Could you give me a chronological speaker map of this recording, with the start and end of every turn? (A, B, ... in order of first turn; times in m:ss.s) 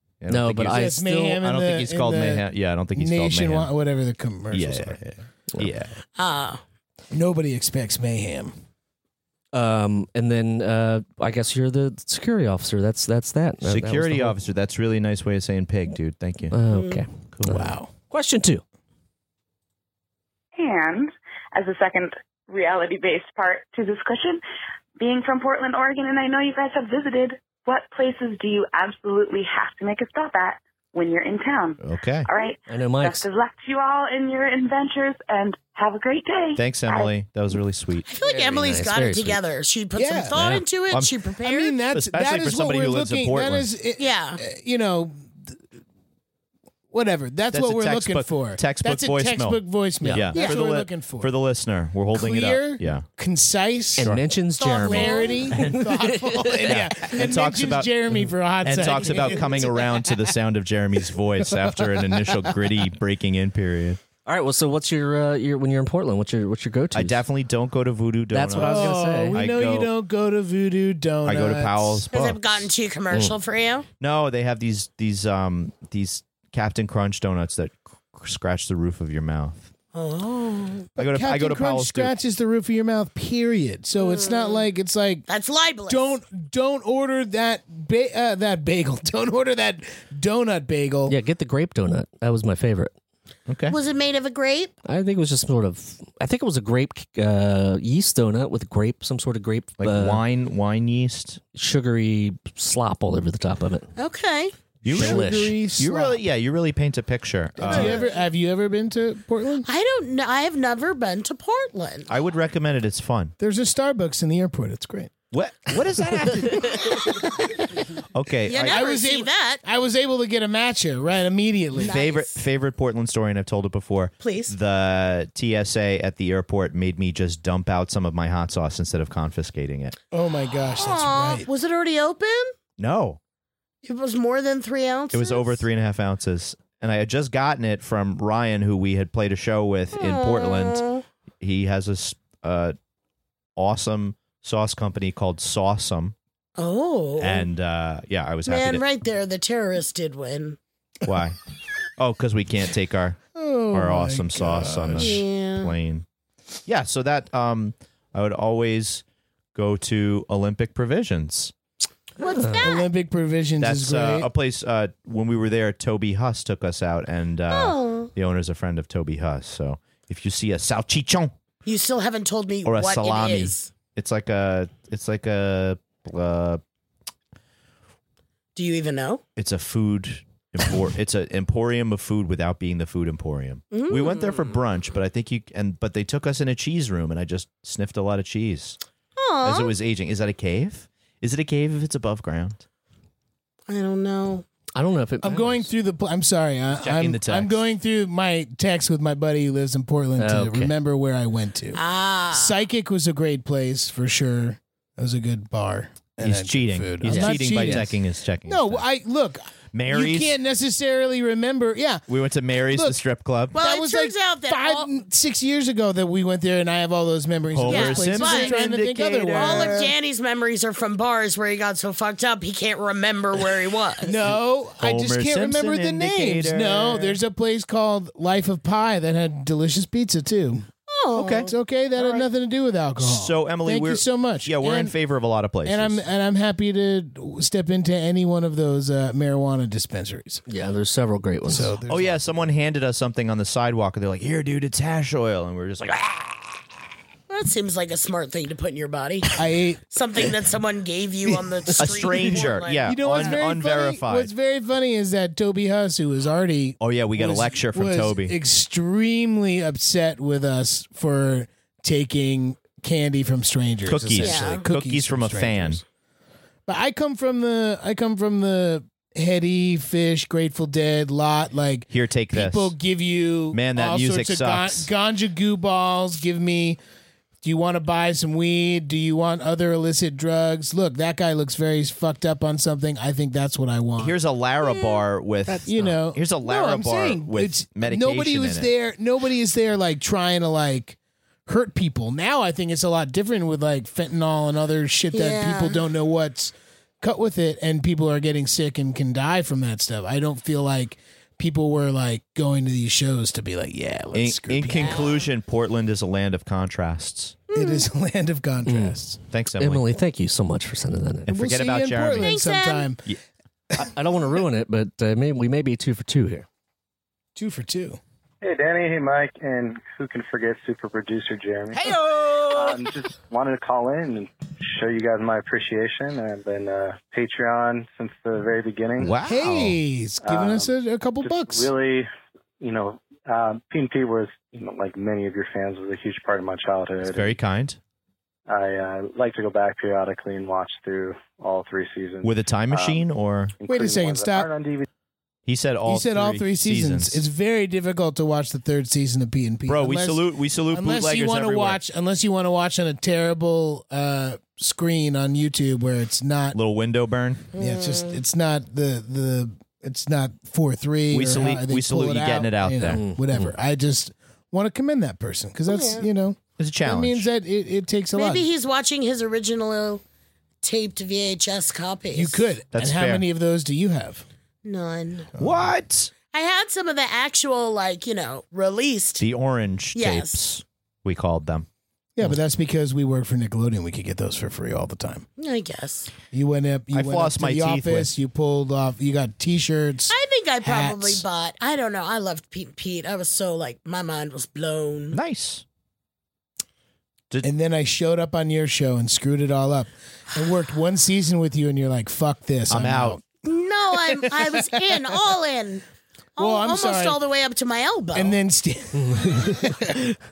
0:00.2-0:03.7 A
0:00.3-0:01.4 B
0:00.7-0:05.0 C
0:04.5-0:06.0 A
0:06.2-0:06.6 D
0:07.1-0:08.5 C
0:09.5-0:14.4 B
0:13.6-0:16.6 A
0:16.5-0:18.6 B
0:16.7-0:17.0 D
0:17.4-0:17.6 A
0:17.4-0:17.9 C
0:20.5-0:24.4 E
0:25.0-0:37.1 E
0:31.8-0:32.3 A
0:32.7-0:33.2 B
0:36.6-0:38.1 A
0:38.1-0:41.8 D
0:38.2-0:39.4 B
0:39.9-0:40.4 C
0:40.3-0:40.6 B
0:41.4-0:45.6 C
0:41.9-0:43.7 A
0:44.0-0:44.4 D
0:46.9-0:51.3 C
0:47.5-0:53.0 A
0:52.1-0:54.2 C
0:54.0-0:56.8 B
0:54.6-0:55.5 D
0:54.7-1:00.3 C
0:56.7-0:57.9 A
0:58.6-1:04.0 A
0:59.1-0:59.6 D
1:01.4-1:02.6 C
1:04.2-1:07.2 B
1:06.9-1:09.9 A
1:08.3-1:09.4 B
1:08.6-1:12.0 C
1:11.2-1:12.5 A
1:12.1-1:13.9 D
1:14.0-1:19.7 A
1:19.9-1:20.9 D
1:21.0-1:22.1 A
1:21.0-1:25.2 C
1:24.0-1:24.6 D
1:25.3-1:26.1 D
1:25.9-1:31.2 C
1:31.1-1:32.9 B
1:33.5-1:33.8 A
1:33.7-1:34.7 D
1:34.8-1:40.2 B
1:39.8-1:41.4 A
1:41.5-1:43.9 B
1:44.0-1:44.5 D
1:44.8-1:48.0 A
1:44.9-1:46.2 C
1:44.9-1:45.5 B
1:47.6-1:49.7 C
1:47.7-1:48.0 D
1:49.6-1:52.1 D
1:52.1-1:53.3 A
1:53.4-1:55.1 C
1:55.3-1:57.2 A
1:56.7-1:57.2 C
1:58.1-1:58.8 A
1:58.4-1:59.6 D
1:58.5-2:02.0 C
2:01.8-2:02.4 D
2:01.8-2:09.9 A
2:04.2-2:04.5 D
2:10.1-2:11.5 C
2:10.8-2:12.5 D
2:12.8-2:13.2 A
2:13.8-2:15.6 D
2:15.1-2:20.8 A
2:20.0-2:21.0 D
2:21.4-2:22.8 A
2:23.6-2:26.1 A
2:26.6-2:27.5 D
2:27.2-2:28.8 A
2:28.4-2:30.6 D
2:31.0-2:31.4 A
2:32.0-2:36.0 A
2:33.3-2:35.2 C
2:34.9-2:35.7 D
2:36.7-2:41.5 A
2:42.2-2:42.9 D
2:42.4-2:42.7 B
2:42.6-2:44.3 C
2:43.6-2:51.3 A
2:47.5-2:48.1 D
2:51.6-2:53.7 D
2:52.6-2:56.6 A
2:58.5-2:59.2 D
2:59.4-3:08.8 A
3:03.7-3:04.6 D
3:09.2-3:09.7 D
3:09.4-3:12.6 A
3:13.7-3:14.4 D
3:14.8-3:15.7 B
3:15.2-3:32.0 C
3:16.8-3:17.6 A
3:20.2-3:20.7 B
3:21.7-3:22.5 D
3:26.2-3:28.8 A
3:27.0-3:27.9 B
3:29.7-3:30.3 A
3:32.1-3:33.6 A
3:32.6-3:33.0 C
3:33.5-3:39.9 C
3:33.5-3:34.9 D
3:37.5-3:39.9 A
3:37.6-3:44.2 D
3:44.0-3:50.7 C
3:44.8-3:47.2 A
3:50.9-3:52.3 D
3:51.1-3:51.5 A
3:51.4-3:54.9 C
3:53.0-3:56.0 A
3:55.6-4:00.4 C
4:00.5-4:01.7 B
4:01.4-4:02.5 C
4:01.9-4:06.6 A
4:07.3-4:09.4 D
4:09.4-4:09.8 C
4:09.9-4:13.4 D
4:11.3-4:25.8 C
4:11.8-4:14.3 A
4:16.8-4:18.3 A
4:23.8-4:25.8 A
4:24.2-4:24.6 D
4:26.7-4:36.8 C
4:31.9-4:32.7 A
4:33.5-4:34.9 A
4:37.4-4:44.2 C
4:44.0-4:48.7 A
4:45.5-5:05.0 C
4:55.1-4:55.8 D
5:04.1-5:07.4 A
5:04.7-5:05.3 D
5:07.5-5:07.9 D
5:07.5-5:09.2 C
5:08.6-5:09.0 B
5:09.3-5:09.8 A
5:09.6-5:11.3 B
5:11.3-5:12.4 A
5:11.3-5:13.0 C
5:12.2-5:12.9 D
5:13.8-5:16.4 B
5:17.4-5:18.0 C
5:18.4-5:29.2 F
5:21.8-5:22.7 A
5:29.0-5:29.8 A
5:29.2-5:31.7 C
5:30.2-5:37.4 F
5:37.0-5:37.8 A
5:38.5-5:43.1 F
5:42.2-5:43.6 A
5:43.6-5:44.9 F
5:43.7-5:44.5 C
5:45.4-5:47.2 A
5:45.8-5:56.6 C
5:49.7-5:51.8 A
5:56.5-5:57.5 A
5:57.5-5:58.2 D
5:57.5-6:08.5 C
6:01.1-6:03.0 A
6:02.8-6:03.5 B
6:05.7-6:06.0 D
6:06.6-6:07.2 A
6:08.1-6:10.0 D
6:10.6-6:12.5 D
6:12.1-6:14.2 C
6:12.7-6:13.2 A
6:14.6-6:15.3 D
6:15.4-6:15.7 C
6:15.4-6:16.1 A
6:16.3-6:19.3 D
6:19.2-6:21.6 A
6:19.9-6:20.4 D
6:22.2-6:25.3 C
6:25.4-6:26.1 D
6:26.3-6:31.2 C
6:26.9-6:28.1 A
6:30.1-6:35.2 D
6:35.1-6:35.6 A
6:37.4-6:43.2 C
6:42.7-6:43.2 A
6:43.4-6:45.8 D
6:44.1-6:45.2 C
6:46.4-6:47.2 C
6:46.4-6:48.4 D
6:48.1-6:50.1 C